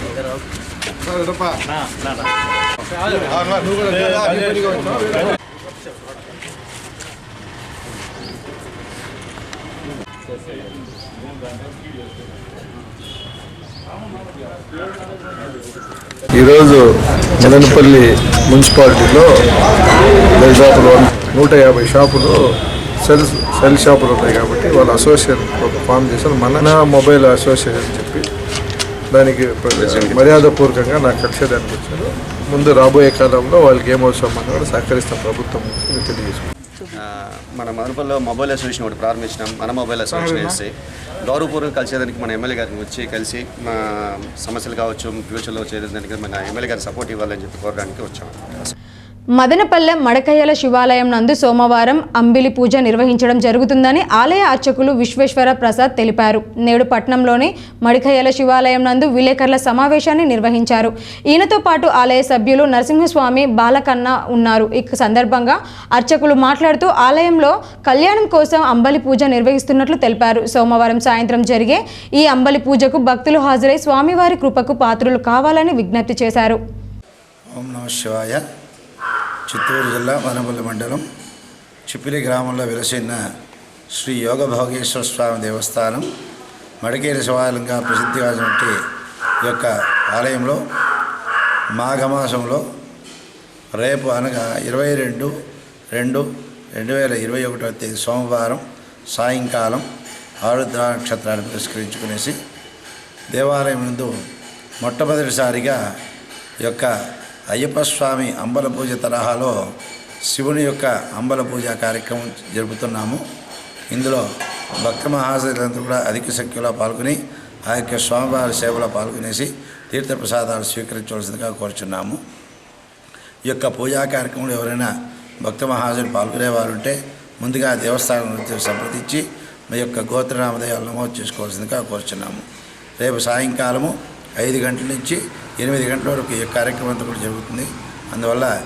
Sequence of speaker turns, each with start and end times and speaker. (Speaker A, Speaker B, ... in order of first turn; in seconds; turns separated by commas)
Speaker A: 16.4-16.8, Speaker A: 17.4-19.3, Speaker A: 20.4-22.4, Speaker A: 23.0-28.3, Speaker A: 29.1-36.5, Speaker B: 37.0-40.7, Speaker A: 40.1-40.6, Speaker B: 41.2-48.7, Speaker C: 49.4-76.6, Speaker D: 77.5-78.4, Speaker D: 79.5-81.0, Speaker D: 81.9-83.2, Speaker D: 83.9-86.1, Speaker D: 86.8-88.8, Speaker D: 89.4-90.6, Speaker D: 91.7-92.6, Speaker D: 93.8-95.3, Speaker D: 95.9-99.9, Speaker D: 100.4-102.4, Speaker D: 103.3-104.1, Speaker D: 104.8-105.8, Speaker D: 106.6-106.9, Speaker D: 107.5-109.5, Speaker D: 110.3-113.2, Speaker D: 113.9-114.3, Speaker D: 114.8-122.2, Speaker D: 123.5-124.9, Speaker D: 125.4-132.4, Speaker D: 133.0-138.5